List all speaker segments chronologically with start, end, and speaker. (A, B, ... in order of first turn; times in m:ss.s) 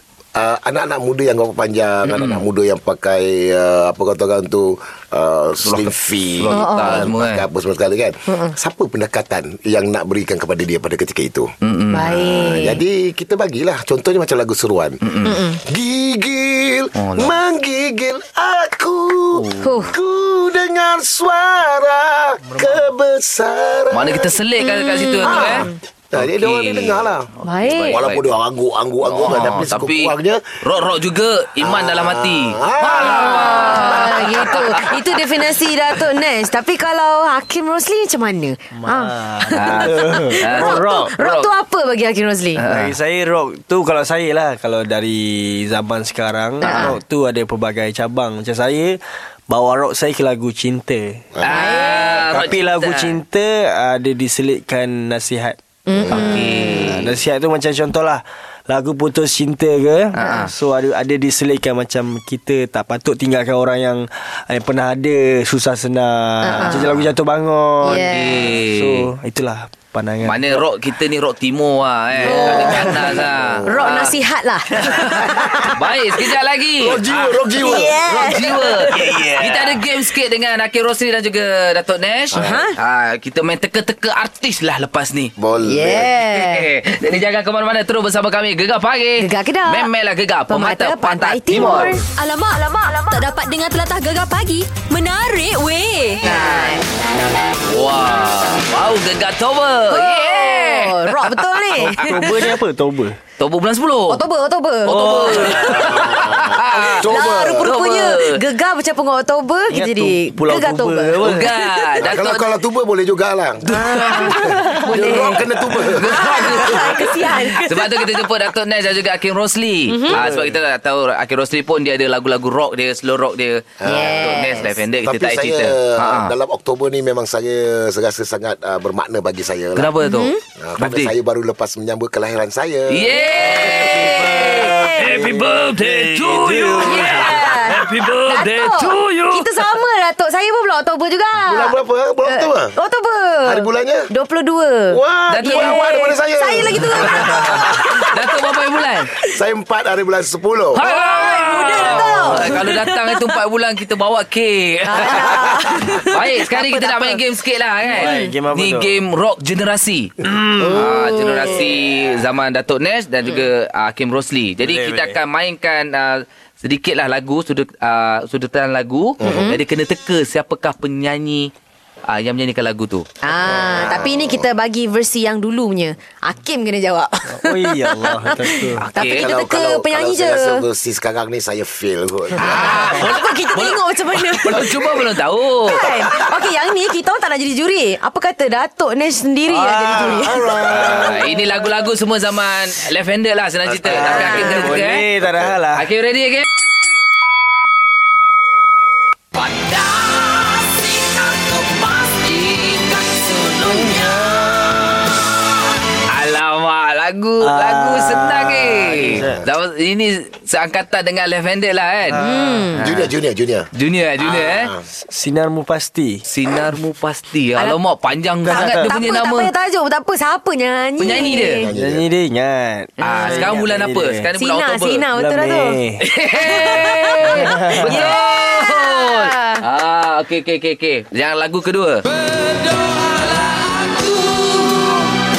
0:00.3-0:11.5 A
0:02.0-0:02.4 B
0:05.6-0:07.4 B
0:06.5-0:07.1 C
0:11.6-0:12.1 B
0:11.9-0:12.8 C
0:12.0-0:15.0 A
0:15.0-0:15.4 B
0:15.2-0:15.6 C
0:15.7-0:24.3 A
0:17.0-0:17.3 B
0:19.3-0:19.7 B
0:19.6-0:19.9 C
0:22.5-0:22.8 D
0:23.9-0:28.2 B
0:24.6-0:25.7 C
0:25.2-0:27.3 A
0:27.4-0:28.0 C
0:27.8-0:30.4 A
0:29.0-0:35.1 B
0:31.6-0:34.9 A
0:33.0-0:42.6 C
0:38.7-0:41.1 D
0:39.5-0:41.5 B
0:42.6-0:43.0 B
0:42.6-0:51.3 D
0:46.6-0:47.0 C
0:46.6-0:46.9 B
0:51.3-0:51.8 A
0:51.4-0:53.2 B
0:51.4-0:52.3 C
0:52.2-1:10.6 D
0:55.9-0:56.8 C
0:56.0-0:56.3 A
0:56.1-0:57.1 B
1:00.2-1:00.5 B
1:00.2-1:00.5 C
1:06.4-1:06.9 C
1:06.5-1:07.1 B
1:07.8-1:08.5 C
1:07.8-1:09.1 B
1:10.2-1:14.2 B
1:12.2-1:13.0 D
1:12.2-1:13.1 C
1:12.5-1:14.1 A
1:13.7-1:15.8 C
1:14.8-1:25.3 B
1:16.8-1:19.6 A
1:17.6-1:19.2 C
1:22.3-1:22.6 A
1:22.3-1:22.7 C
1:25.4-1:26.1 A
1:25.6-1:26.7 C
1:26.3-1:32.0 B
1:29.2-1:29.9 C
1:30.5-1:32.0 C
1:32.1-1:36.4 E
1:36.2-1:36.8 C
1:36.3-1:36.7 B
1:37.7-1:42.4 B
1:39.9-1:42.4 C
1:41.8-1:43.2 D
1:43.4-1:44.2 B
1:44.1-1:46.2 C
1:44.8-1:45.8 D
1:44.8-1:48.4 B
1:45.4-1:47.7 A
1:46.8-1:52.0 C
1:49.7-1:51.5 D
1:51.2-1:52.5 B
1:52.0-1:57.0 A
1:53.7-1:54.5 B
1:53.7-1:58.2 C
1:55.8-2:06.3 B
1:59.9-2:00.2 C
2:00.1-2:00.4 D
2:03.8-2:09.9 A
2:03.8-2:04.8 C
2:09.8-2:11.1 B
2:10.0-2:10.4 C
2:10.6-2:13.2 A
2:12.9-2:19.7 B
2:13.1-2:15.2 C
2:13.4-2:17.7 D
2:16.8-2:21.7 C
2:21.4-2:22.7 A
2:22.3-2:28.3 C
2:23.4-2:24.1 A
2:24.9-2:28.0 A
2:25.3-2:25.8 B
2:27.3-2:29.1 B
2:29.2-2:30.8 A
2:30.7-2:40.1 B
2:30.8-2:33.4 C
2:31.8-2:32.5 A
2:34.8-2:37.2 C
2:37.9-2:38.3 C
2:37.9-2:38.9 D
2:40.2-2:41.0 D
2:40.6-2:41.7 C
2:40.7-2:51.5 B
2:44.6-2:45.2 D
2:49.2-2:49.5 A
2:49.2-2:49.6 C
2:52.1-2:53.0 B
2:53.2-3:00.6 C
2:53.4-2:54.4 A
2:57.3-2:58.8 D
2:58.8-2:59.3 B
2:59.0-3:03.1 A
3:02.4-3:06.1 B
3:02.5-3:05.0 C
3:05.6-3:10.5 C
3:09.5-3:10.9 D
3:10.0-3:11.4 A
3:10.7-3:15.0 B
3:13.7-3:14.0 A
3:13.8-3:15.9 D
3:14.0-3:14.8 C
3:15.2-3:15.5 A
3:15.7-3:16.5 B
3:19.4-3:24.6 B
3:23.6-3:24.9 D
3:26.1-3:32.2 B
3:27.4-3:29.4 D
3:32.1-3:32.7 D
3:32.2-3:32.8 C
3:32.7-3:33.1 B
3:32.8-3:33.7 A
3:33.7-3:34.7 B
3:34.2-3:34.8 A
3:35.1-3:36.2 D
3:36.3-3:39.5 B
3:38.4-3:38.9 D
3:38.5-3:41.7 C
3:41.0-3:41.6 B
3:41.3-3:42.1 A
3:41.7-3:44.3 D
3:43.0-3:43.5 C
3:43.0-3:45.1 B
3:44.4-3:45.8 C
3:45.1-3:46.0 D
3:46.0-3:52.1 B
3:46.3-3:49.6 C
3:47.3-3:48.1 D
3:52.3-3:55.0 D